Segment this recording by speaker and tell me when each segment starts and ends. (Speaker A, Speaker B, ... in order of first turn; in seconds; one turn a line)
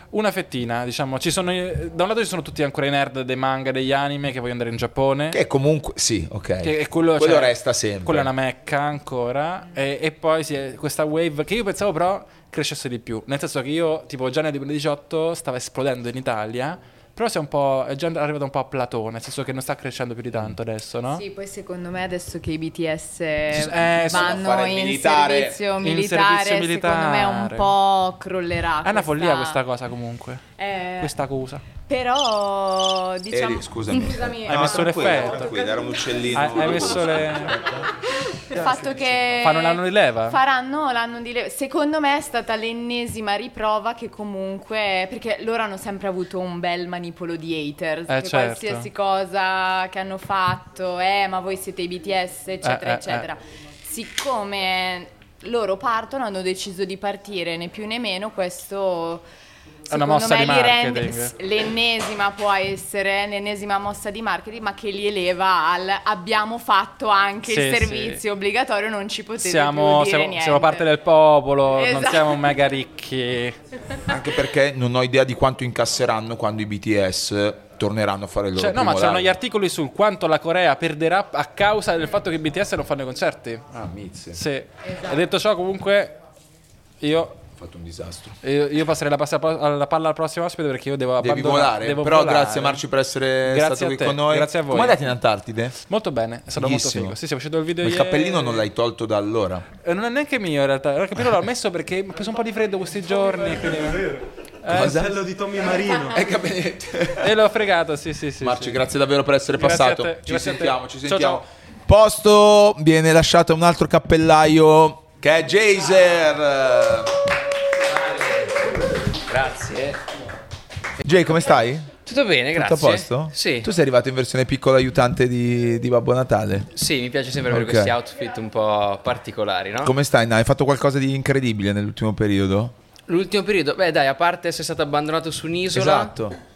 Speaker A: 0.1-5.4
Speaker B: 5.3-8.3
Speaker A: 6.6-21.2
Speaker C: 21.1-29.6
Speaker A: 23.5-24.6
Speaker B: 24.1-25.6
Speaker A: 25.8-27.7
Speaker A: 28.8-30.4
Speaker C: 30.6-37.1
Speaker A: 31.0-31.6
Speaker B: 33.3-37.8
Speaker A: 34.0-35.6
Speaker A: 36.3-37.7
Speaker C: 38.5-59.2
Speaker A: 38.5-40.4
Speaker A: 48.1-48.9
Speaker A: 52.6-53.3
Speaker A: 59.9-61.3
Speaker C: 59.9-70.9
Speaker A: 67.4-68.2
Speaker A: 69.4-73.6
Speaker C: 71.7-72.5
Speaker B: 74.1-79.3
Speaker A: 78.5-83.7
Speaker B: 83.7-84.4
Speaker A: 84.3-86.1
Speaker A: 87.0-87.4
Speaker B: 87.6-88.3
Speaker A: 88.4-92.8
Speaker B: 91.2-95.8
Speaker A: 93.4-95.2
Speaker A: 95.9-98.7
Speaker B: 96.6-97.2
Speaker B: 97.8-99.7
Speaker A: 99.8-105.1
Speaker D: 103.3-104.2
Speaker B: 104.7-105.2
Speaker D: 104.8-106.2
Speaker B: 106.1-107.3
Speaker A: 107.2-108.8
Speaker B: 108.4-117.2
Speaker A: 109.5-111.4
Speaker E: 119.3-120.0
Speaker B: 121.0-121.9
Speaker E: 122.0-123.7
Speaker B: 122.5-126.7
Speaker E: 126.7-129.9
Speaker B: 127.5-128.0
Speaker B: 129.8-132.7
Speaker E: 133.1-136.1
Speaker B: 135.7-136.3